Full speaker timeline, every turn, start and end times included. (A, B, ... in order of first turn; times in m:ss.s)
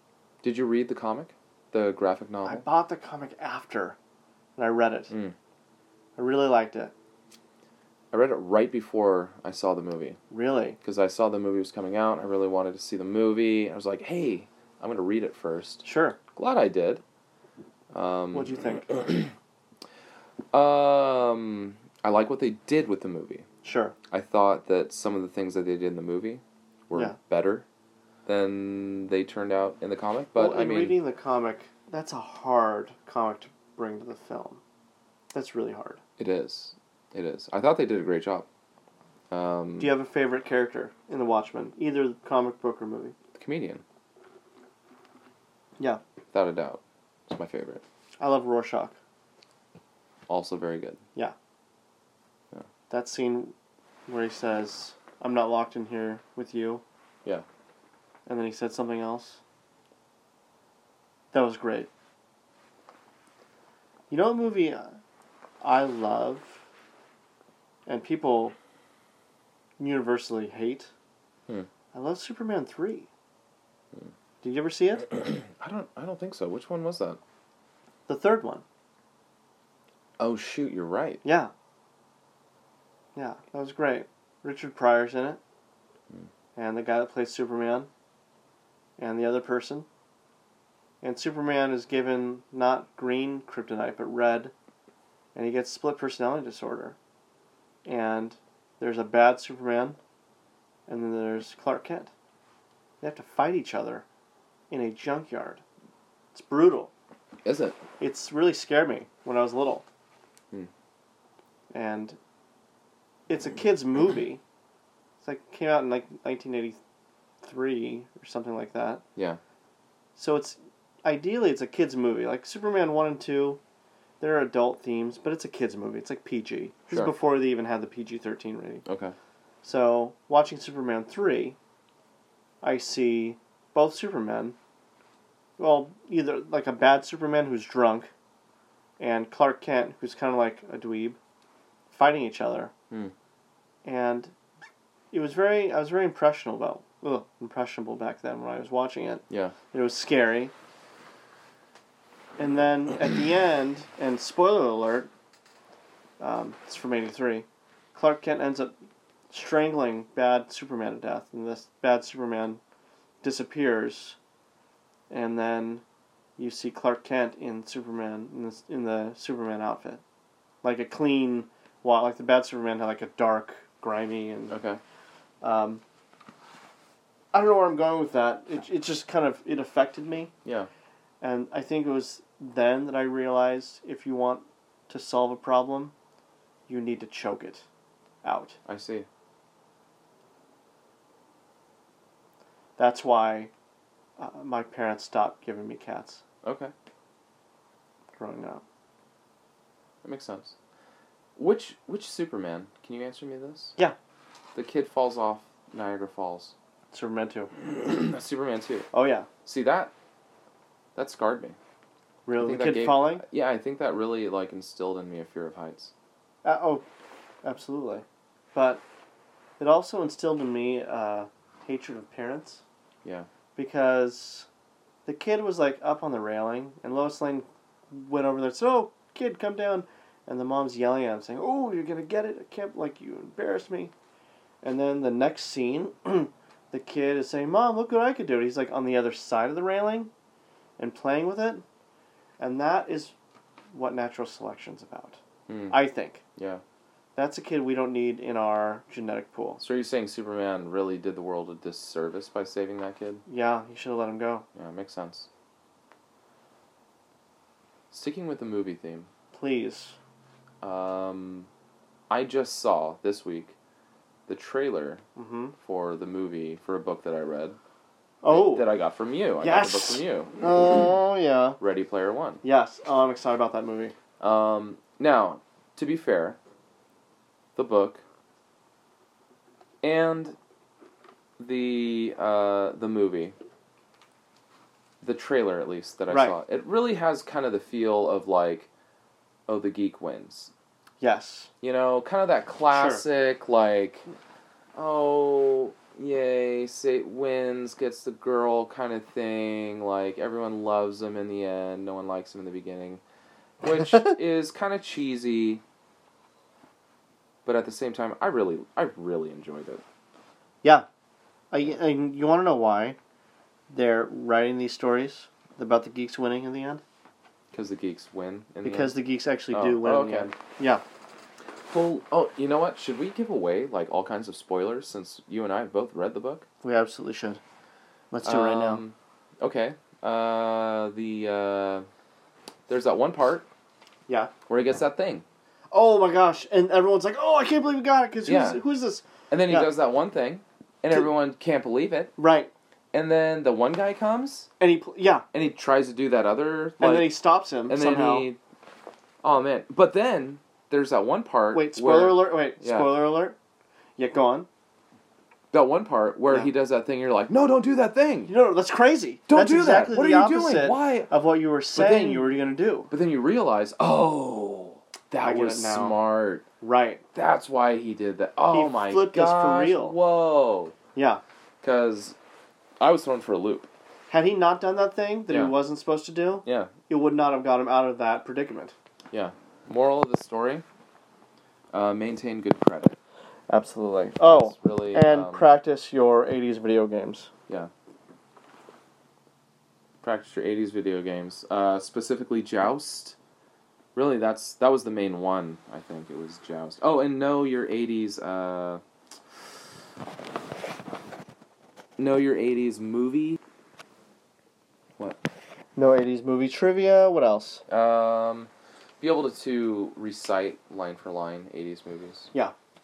0:00.4-0:02.6 A
0:02.4-0:04.0 B
0:04.6-0:05.1 B
0:05.1-0:05.4 A
0:06.2-0:06.9 B
0:08.1-0:10.2 A
0:10.3-0:10.8 B
0:10.8-0:17.0 A
0:15.8-0:16.2 B
0:17.9-0:19.3 A
0:18.3-0:18.9 B
0:20.5-0:23.5 A
0:23.6-0:24.0 B
0:24.1-0:27.7 A
0:28.3-0:31.0 A
0:30.4-0:34.6 B
0:35.3-0:36.0 B
0:36.2-0:38.5 A
0:39.3-0:39.9 A
0:39.8-0:43.2 B
0:43.4-0:43.8 A
0:46.3-0:47.8 A
0:48.2-0:49.0 B
0:50.3-0:51.0 A
0:52.9-0:53.6 B
0:54.1-0:56.8 B
0:58.3-0:59.4 B
1:01.3-1:01.9 B
1:04.1-1:05.0 B
1:05.6-1:06.6 B
1:07.9-1:08.6 B
1:09.8-1:10.9 B
1:11.9-1:13.1 B
1:14.4-1:15.1 B
1:15.1-1:17.2 A
1:18.1-1:18.6 B
1:20.2-1:21.2 A
1:21.2-1:21.5 B
1:23.2-1:25.4 B
1:26.6-1:27.9 B
1:29.0-1:29.9 B
1:31.0-1:34.5 B
1:35.4-1:37.0 B
1:37.8-1:40.0 B
1:40.9-1:42.1 B
1:43.0-1:44.0 B
1:44.7-1:45.6 B
1:46.3-1:46.9 B
1:47.4-1:47.8 A
1:48.0-1:49.8 B
1:51.7-1:52.2 B
1:53.3-1:54.4 B
1:55.2-1:56.8 B
1:57.4-1:59.0 B
2:00.2-2:03.6 B
2:04.2-2:08.8 B
2:08.8-2:09.2 A
2:09.6-2:11.6 B
2:12.6-2:14.6 B
2:15.6-2:18.1 B
2:19.0-2:21.2 B
2:21.9-2:22.7 B
2:23.8-2:24.3 B
2:25.1-2:30.5 B
2:29.3-2:29.6 A
2:32.4-2:35.1 B
2:36.2-2:38.7 B
2:39.3-2:42.6 B
2:43.2-2:44.2 B
2:45.1-2:45.8 B
2:46.4-2:50.0 B
2:50.6-2:54.6 B
2:54.5-2:54.8 A
2:55.4-2:55.8 B
2:57.3-3:00.3 B
3:01.2-3:06.0 B
3:06.7-3:07.7 B
3:08.2-3:08.6 B
3:08.7-3:09.1 A
3:12.8-3:13.5 B
3:14.2-3:16.2 B
3:16.4-3:16.7 A
3:18.2-3:18.6 B
3:20.0-3:20.6 A
3:21.4-3:23.8 A
3:24.6-3:26.5 A
3:26.9-3:27.5 B
3:27.7-3:28.9 A
3:28.9-3:29.3 B
3:29.4-3:29.9 A
3:31.0-3:31.6 A
3:32.3-3:33.2 B
3:32.4-3:35.9 A
3:36.4-3:36.8 B
3:37.4-3:38.8 B
3:39.6-3:42.6 B
3:43.6-3:44.5 B
3:45.1-3:53.9 B
3:54.6-4:00.1 B
4:00.8-4:01.6 B
4:02.4-4:03.2 B
4:03.7-4:05.2 B
4:05.5-4:05.8 A
4:05.7-4:06.2 B
4:06.4-4:06.6 A
4:07.2-4:09.6 B
4:09.6-4:13.2 A
4:13.3-4:14.5 B
4:14.6-4:15.3 A
4:17.9-4:19.1 A
4:19.3-4:20.0 B
4:20.6-4:21.5 A
4:22.1-4:23.6 A
4:24.3-4:25.0 A
4:25.2-4:25.6 B
4:25.6-4:27.6 A
4:28.2-4:28.7 B
4:28.3-4:30.3 A
4:29.4-4:31.6 B
4:31.6-4:32.4 A
4:32.4-4:34.0 B
4:34.2-4:36.4 A
4:37.6-4:38.0 A
4:39.8-4:40.4 A
4:41.4-4:43.4 A
4:45.0-4:48.7 A
4:46.1-4:46.4 B
4:49.5-4:50.5 A
4:51.0-4:51.5 B
4:51.6-4:54.0 A
4:52.7-4:53.0 B
4:54.8-5:03.0 A
5:03.6-5:05.6 A
5:07.4-5:09.8 A
5:11.5-5:13.0 B
5:13.7-5:16.8 B
5:17.5-5:18.9 A
5:18.6-5:20.8 B
5:19.5-5:20.3 A
5:21.7-5:26.5 A
5:26.6-5:27.4 B
5:28.1-5:28.8 B
5:28.2-5:31.9 A
5:32.7-5:33.5 A
5:34.5-5:35.2 A
5:35.7-5:39.7 B
5:38.2-5:38.6 A
5:39.3-5:42.1 A
5:42.2-5:42.5 B
5:42.9-5:44.5 A
5:44.6-5:45.3 B
5:45.3-5:47.1 A
5:46.8-5:48.3 B
5:47.7-5:48.4 A
5:49.2-5:52.9 A
5:51.5-5:53.4 B
5:54.0-5:54.5 B
5:55.5-5:58.3 A
5:58.3-6:02.9 B
5:59.3-6:01.1 A
6:01.8-6:02.4 A
6:02.9-6:06.4 A
6:05.2-6:06.0 B
6:06.6-6:07.0 B
6:07.2-6:10.8 A
6:08.5-6:10.0 B
6:11.0-6:11.2 B
6:11.6-6:12.2 A
6:12.8-6:13.7 A
6:14.1-6:18.8 B
6:16.4-6:16.7 A
6:19.1-6:20.6 A
6:21.7-6:23.0 A
6:23.5-6:27.3 B
6:24.2-6:25.5 A
6:30.0-6:33.2 A
6:34.0-6:38.8 A
6:42.0-6:43.4 A
6:45.8-6:47.6 B
6:47.7-6:52.3 A